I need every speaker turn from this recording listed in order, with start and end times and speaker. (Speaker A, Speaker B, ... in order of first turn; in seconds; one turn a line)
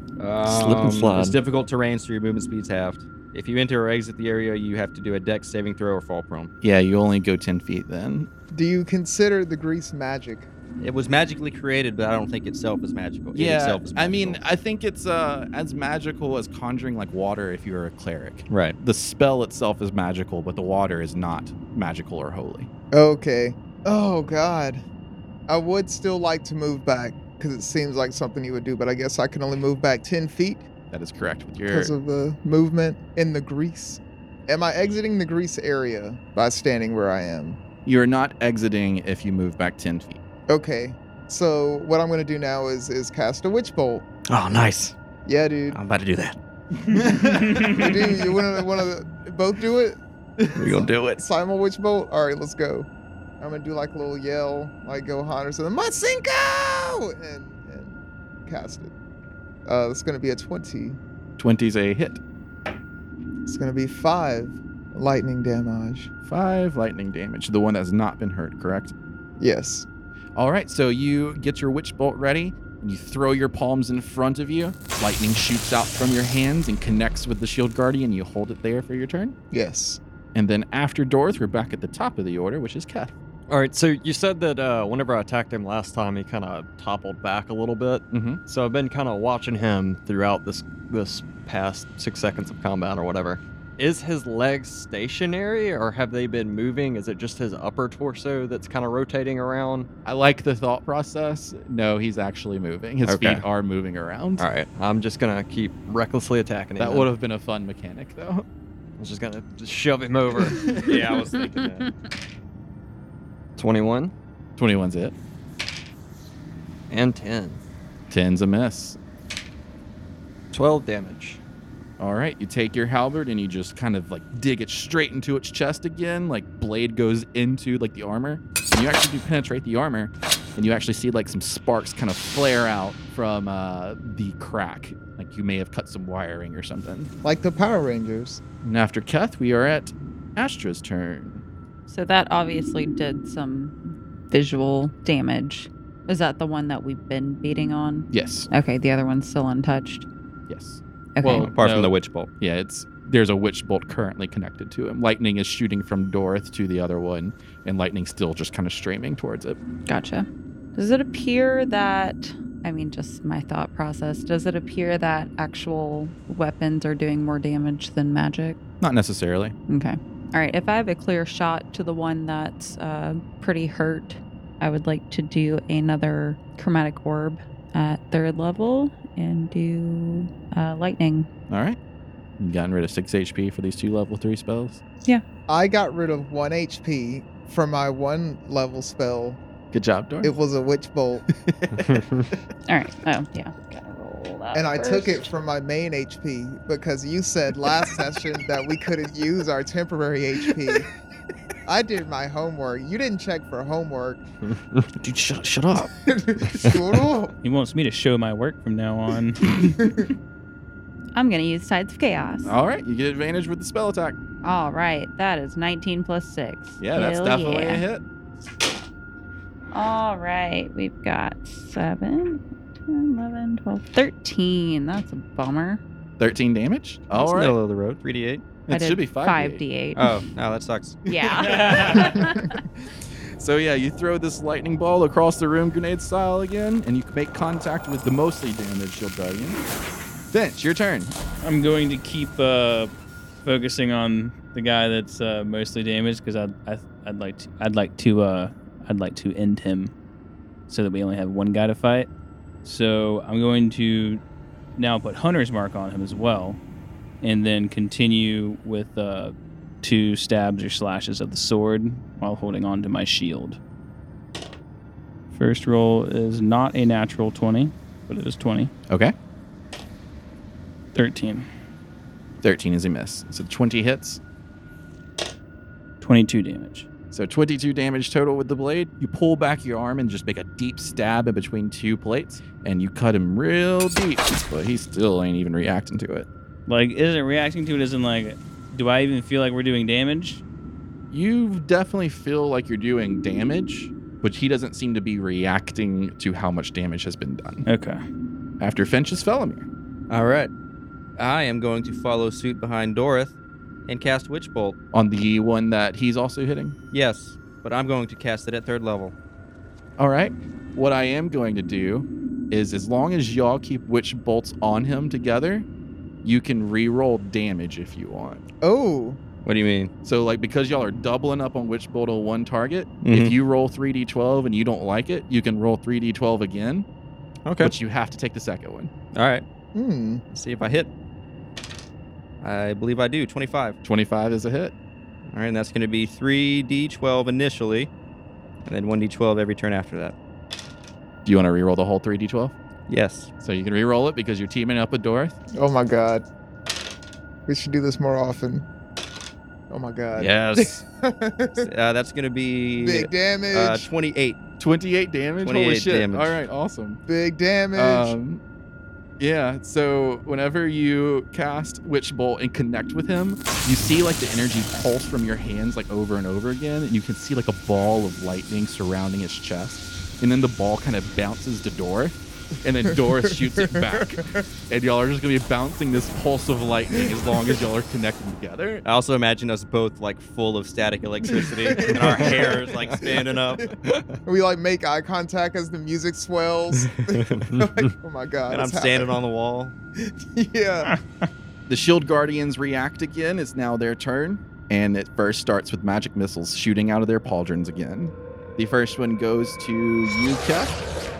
Speaker A: 0.2-6.5
Speaker B: 0.4-1.4
Speaker C: 6.6-8.3
Speaker D: 8.5-10.5
Speaker A: 10.8-14.4
Speaker C: 13.3-22.7
Speaker A: 18.5-18.8
Speaker D: 22.9-24.8
Speaker D: 25.5-30.7
Speaker C: 30.9-31.9
Speaker D: 31.7-37.6
Speaker C: 37.8-40.2
Speaker D: 40.5-44.1
Speaker A: 44.3-44.9
Speaker D: 45.2-45.8
Speaker A: 45.7-46.4
Speaker C: 46.9-47.8
Speaker E: 47.2-47.7
Speaker D: 47.6-50.0
Speaker D: 50.5-52.9
Speaker A: 50.5-51.2
Speaker D: 53.4-58.9
Speaker D: 59.6-61.0
Speaker C: 61.4-62.2
Speaker D: 63.5-66.1
Speaker C: 66.2-68.9
Speaker D: 69.4-69.9
Speaker C: 70.3-79.3
Speaker D: 79.5-80.0
Speaker C: 80.3-83.1
Speaker B: 83.5-99.9
Speaker C: 88.1-88.4
Speaker C: 100.0-104.5
Speaker B: 103.0-103.4
Speaker B: 104.4-107.1
Speaker C: 106.8-108.5
Speaker B: 109.0-110.7
Speaker C: 110.5-111.0
Speaker A: 110.7-111.9
Speaker B: 113.5-114.1
Speaker C: 114.6-115.1
Speaker B: 116.9-117.6
Speaker C: 118.1-119.0
Speaker B: 120.5-121.4
Speaker C: 122.0-137.1
Speaker D: 137.2-138.4
Speaker C: 138.6-141.4
Speaker F: 141.9-143.8
Speaker F: 144.3-150.1
Speaker C: 148.1-148.5
Speaker C: 150.5-159.6
Speaker F: 151.2-151.5
Speaker A: 151.5-152.3
Speaker F: 159.9-168.6
Speaker C: 168.8-169.6
Speaker F: 169.7-181.3
Speaker C: 181.5-181.8
Speaker C: 182.4-184.8
Speaker D: 185.5-189.4
Speaker C: 189.7-190.3
Speaker D: 190.2-191.2
Speaker C: 191.3-192.0
Speaker B: 191.9-192.2
Speaker F: 192.7-195.3
Speaker D: 194.5-200.9
Speaker D: 201.7-204.2
Speaker B: 204.5-204.9
Speaker C: 205.0-205.9
Speaker D: 206.1-207.3
Speaker E: 207.4-209.5
Speaker D: 209.6-210.1
Speaker F: 211.1-212.5
Speaker C: 212.4-214.2
Speaker F: 214.4-217.8
Speaker C: 216.8-218.0
Speaker F: 219.7-225.8
Speaker C: 226.2-227.6
Speaker A: 227.1-228.4
Speaker C: 228.7-229.6
Speaker F: 228.7-230.1
Speaker A: 230.0-231.0
Speaker F: 231.1-232.6
Speaker C: 231.2-232.2
Speaker E: 231.5-232.1
Speaker C: 233.3-239.6
Speaker C: 240.3-241.1
Speaker E: 241.4-242.9
Speaker E: 243.4-249.9
Speaker E: 250.7-252.1
Speaker E: 252.6-254.2
Speaker E: 254.8-256.6
Speaker E: 257.2-263.6
Speaker E: 265.3-268.7
Speaker C: 268.9-269.1
Speaker E: 270.9-271.5
Speaker C: 272.4-274.2
Speaker E: 276.0-276.9
Speaker C: 277.1-286.3
Speaker E: 286.7-290.4
Speaker C: 291.1-297.6
Speaker E: 297.6-298.0
Speaker C: 298.6-299.7
Speaker A: 300.1-300.5
Speaker A: 301.2-304.8
Speaker C: 304.9-306.8
Speaker A: 306.9-309.1
Speaker C: 310.0-315.7
Speaker C: 316.2-318.4
Speaker D: 318.6-319.2
Speaker A: 319.4-319.9
Speaker C: 320.0-326.9
Speaker A: 323.0-323.3
Speaker A: 327.4-327.7
Speaker C: 327.6-328.9
Speaker A: 329.1-329.4
Speaker D: 329.7-330.2
Speaker A: 330.3-330.9
Speaker A: 332.4-333.8
Speaker C: 333.8-334.7
Speaker A: 335.3-337.9
Speaker A: 338.6-340.1
Speaker C: 341.2-342.5
Speaker A: 342.9-343.3
Speaker C: 343.4-345.4
Speaker D: 345.5-346.2
Speaker D: 347.5-348.7
Speaker D: 349.7-351.7
Speaker A: 350.1-350.8
Speaker A: 351.6-354.4
Speaker D: 352.8-353.9
Speaker C: 354.6-357.0
Speaker A: 355.4-356.3
Speaker D: 357.1-358.1
Speaker C: 357.7-358.4
Speaker C: 359.2-378.8
Speaker D: 372.9-374.4
Speaker A: 378.8-383.6
Speaker D: 381.3-383.6
Speaker D: 384.2-389.1
Speaker A: 388.5-389.7
Speaker D: 390.0-390.9
Speaker C: 391.7-400.9